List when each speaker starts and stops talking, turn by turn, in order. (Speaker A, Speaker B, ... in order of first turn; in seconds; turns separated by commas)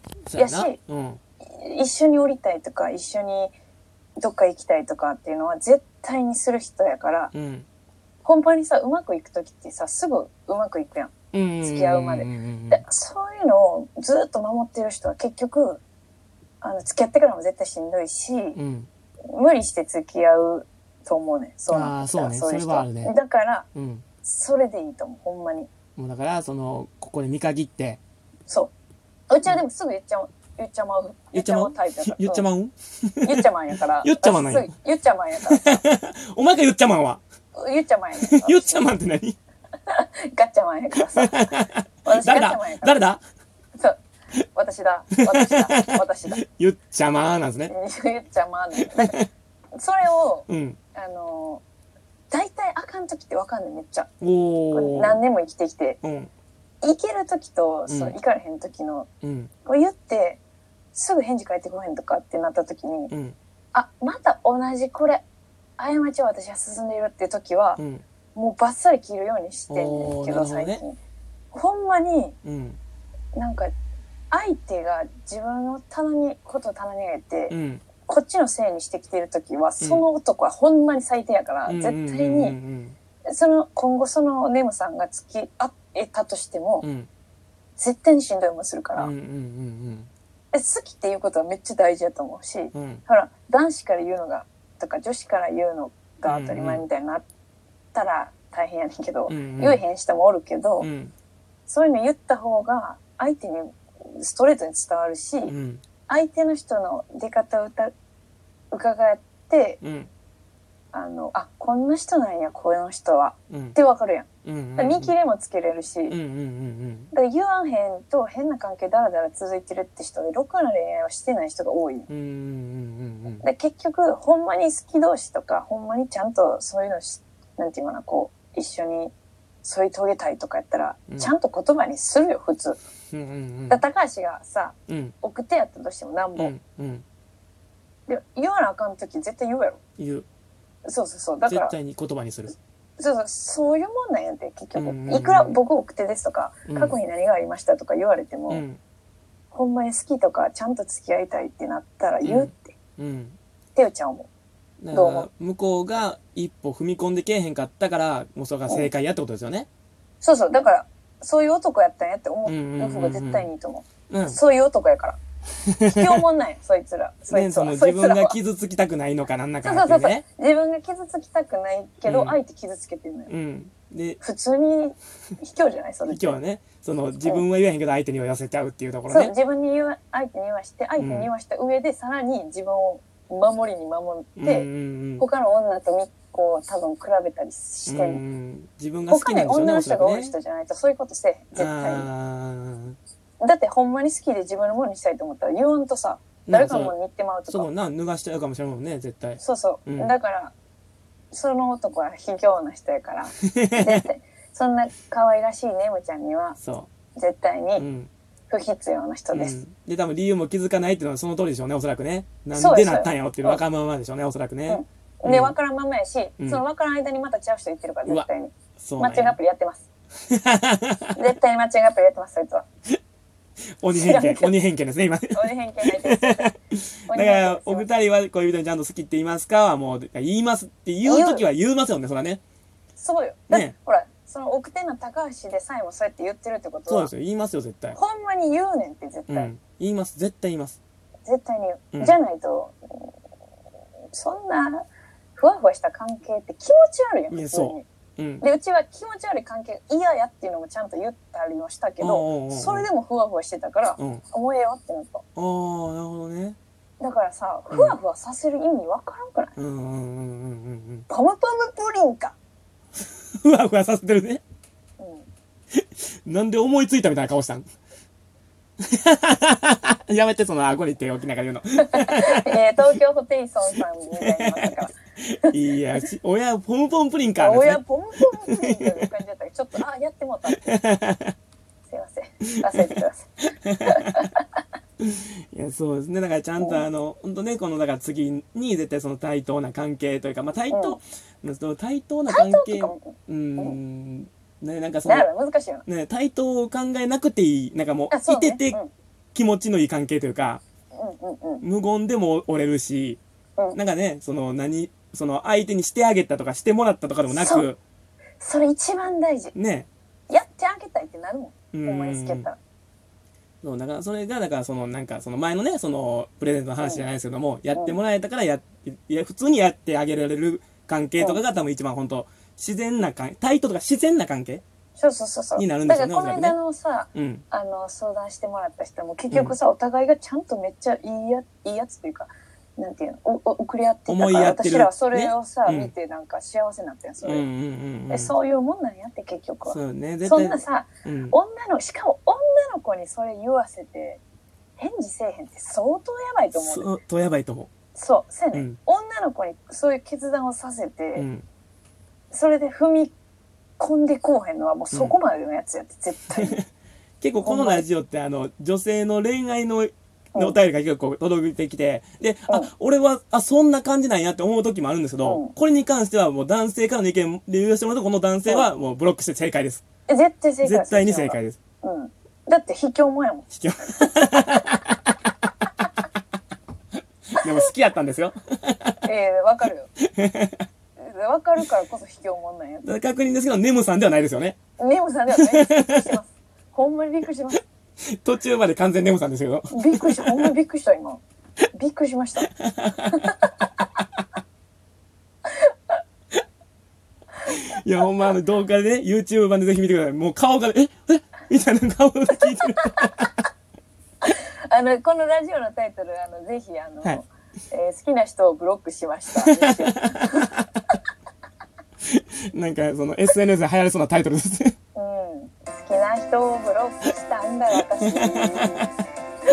Speaker A: 0.3-1.2, Speaker B: 0.4-0.8, Speaker B: 1.4-3.5, Speaker B: 4.2-7.3, Speaker A: 7.3-7.7, Speaker B: 8.2-15.8, Speaker A: 11.3-12.8, Speaker B: 16.6-18.6, Speaker A: 18.6-18.9, Speaker B: 19.3-23.7, Speaker A: 21.7-23.1, Speaker A: 23.8-24.1, Speaker B: 24.2-25.7, Speaker A: 26.0-28.0, Speaker B: 29.3-32.5, Speaker A: 31.3-33.5, Speaker B: 33.2-35.8, Speaker A: 34.0-34.7, Speaker A: 35.5-37.2, Speaker B: 37.5-38.9, Speaker A: 38.2-39.4, Speaker B: 39.9-41.5, Speaker A: 41.0-43.2, Speaker B: 42.0-43.0, Speaker B: 44.5-46.4, Speaker A: 45.3-47.7, Speaker B: 47.7-49.2, Speaker A: 48.8-49.3, Speaker B: 49.7-51.6, Speaker A: 50.5-50.8, Speaker B: 52.3-54.1, Speaker A: 54.2-55.2, Speaker B: 54.7-56.0, Speaker A: 56.0-56.3, Speaker B: 56.8-59.1, Speaker A: 57.9-58.2, Speaker A: 59.2-59.5, Speaker B: 59.6-60.4, Speaker B: 60.9-63.1, Speaker A: 63.1-63.4, Speaker B: 63.7-65.2, Speaker B: 65.8-67.8, Speaker A: 67.8-68.0, Speaker B: 68.3-71.0, Speaker A: 69.7-70.8, Speaker B: 71.5-72.4, Speaker A: 72.4-72.8, Speaker B: 73.3-73.7, Speaker B: 74.3-82.6, Speaker A: 77.5-77.8, Speaker A: 81.7-83.0, Speaker B: 83.3-86.9, Speaker A: 86.8-87.1, Speaker B: 87.8-89.1, Speaker A: 89.0-90.1, Speaker B: 90.5-97.3, Speaker A: 92.7-93.0, Speaker A: 96.3-96.8, Speaker B: 97.9-100.9, Speaker A: 99.3-99.8, Speaker A: 100.8-101.1, Speaker B: 101.7-105.5, Speaker A: 105.5-105.8, Speaker B: 106.1-107.9, Speaker B: 108.7-109.8, Speaker A: 109.8-110.1, Speaker B: 110.9-116.2, Speaker A: 113.5-113.8, Speaker A: 114.5-115.1, Speaker A: 116.1-117.1, Speaker B: 117.1-122.1, Speaker A: 122.1-123.5, Speaker B: 123.4-132.8, Speaker A: 133.1-133.8, Speaker B: 133.7-136.5, Speaker A: 134.9-135.1, Speaker A: 136.4-137.0, Speaker B: 138.1-139.8, Speaker A: 140.0-140.3, Speaker B: 140.8-141.7, Speaker A: 141.4-142.6, Speaker B: 143.0-148.6, Speaker A: 144.8-145.6, Speaker A: 146.7-147.0, Speaker A: 148.5-148.8, Speaker B: 149.5-152.7, Speaker A: 152.2-153.4, Speaker B: 153.8-154.3, Speaker A: 154.8-159.7, Speaker B: 154.9-155.3, Speaker B: 160.2-165.2, Speaker A: 162.5-163.5, Speaker A: 164.1-164.4, Speaker A: 165.7-166.2, Speaker B: 165.9-168.4, Speaker A: 167.3-170.2, Speaker B: 169.6-173.3, Speaker A: 172.1-172.4, Speaker A: 173.3-174.2, Speaker B: 174.2-176.4, Speaker A: 176.1-179.3, Speaker B: 179.1-184.7, Speaker A: 181.0-181.3, Speaker A: 184.4-185.2, Speaker B: 185.2-188.2, Speaker A: 187.9-190.3, Speaker B: 189.1-192.1, Speaker A: 191.6-193.0, Speaker B: 193.4-197.7, Speaker A: 196.5-196.9, Speaker A: 197.5-200.1, Speaker B: 199.4-200.5, Speaker B: 201.3-206.6, Speaker A: 203.5-204.0, Speaker A: 206.6-206.9, Speaker B: 207.2-207.9, Speaker A: 207.8-208.1, Speaker B: 208.5-209.6, Speaker A: 209.3-215.6, Speaker B: 212.5-213.6, Speaker B: 214.7-219.9, Speaker A: 218.8-219.4, Speaker A: 220.3-221.2, Speaker B: 221.2-222.7, Speaker A: 223.8-232.4, Speaker B: 223.9-224.6, Speaker B: 225.3-226.5, Speaker B: 227.1-227.9, Speaker B: 231.0-231.5, Speaker B: 233.0-237.1, Speaker A: 233.5-233.8, Speaker A: 236.9-238.0, Speaker B: 237.9-239.5, Speaker A: 239.3-240.8, Speaker B: 241.3-243.1, Speaker B: 244.1-247.9, Speaker A: 247.3-248.4, Speaker B: 248.4-255.2, Speaker A: 252.0-252.9, Speaker A: 255.4-256.6, Speaker B: 257.0-259.6, Speaker A: 257.7-258.0, Speaker A: 259.6-261.1, Speaker B: 261.1-262.4, Speaker A: 263.4-264.4, Speaker B: 265.0-265.3, Speaker A: 265.8-267.6, Speaker A: 268.8-272.9, Speaker B: 271.9-274.9, Speaker A: 274.2-279.1, Speaker B: 275.5-276.0, Speaker B: 277.4-280.7, Speaker A: 280.6-281.3, Speaker B: 281.9-284.4, Speaker A: 282.6-283.0, Speaker A: 283.6-284.3, Speaker A: 285.0-295.3, Speaker B: 286.6-286.9, Speaker B: 290.7-291.0, Speaker B: 292.3-293.8, Speaker B: 295.1-295.9, Speaker A: 295.9-298.8, Speaker B: 298.1-298.9, Speaker A: 299.4-300.6, Speaker B: 300.9-301.6, Speaker A: 301.6-303.2, Speaker A: 303.8-307.8, Speaker B: 307.3-307.7, Speaker B: 308.4-309.5, Speaker A: 309.5-309.9, Speaker B: 310.3-312.6, Speaker A: 311.7-312.5, Speaker A: 313.6-324.6, Speaker B: 325.0-337.4, Speaker A: 325.6-326.6, Speaker A: 327.1-327.4, Speaker A: 334.1-335.9, Speaker A: 337.2-338.3, Speaker B: 338.1-344.2, Speaker A: 339.7-341.4, Speaker B: 344.8-346.9, Speaker A: 346.6-347.7, Speaker B: 347.9-351.3, Speaker A: 351.2-351.4, Speaker B: 352.3-353.1, Speaker B: 353.8-356.6, Speaker A: 354.9-355.2, Speaker A: 356.3-356.7, Speaker A: 357.2-369.8, Speaker B: 357.4-357.9, Speaker B: 365.2-365.5, Speaker B: 370.1-374.7, Speaker A: 370.6-371.6, Speaker A: 373.5-375.1, Speaker A: 377.3-379.0, Speaker B: 379.0-379.9, Speaker A: 380.0-380.6, Speaker B: 381.0-382.9, Speaker A: 382.9-384.6, Speaker B: 384.8-387.6, Speaker A: 385.3-386.1, Speaker A: 388.2-390.5, Speaker B: 389.7-391.2, Speaker B: 391.7-392.5, Speaker A: 392.5-393.2, Speaker B: 393.1-393.5, Speaker B: 395.6-395.9, Speaker A: 397.5-403.3, Speaker B: 402.4-403.3, Speaker B: 404.2-410.5, Speaker A: 409.4-410.6, Speaker A: 412.1-414.8, Speaker B: 414.9-419.1, Speaker A: 418.1-418.9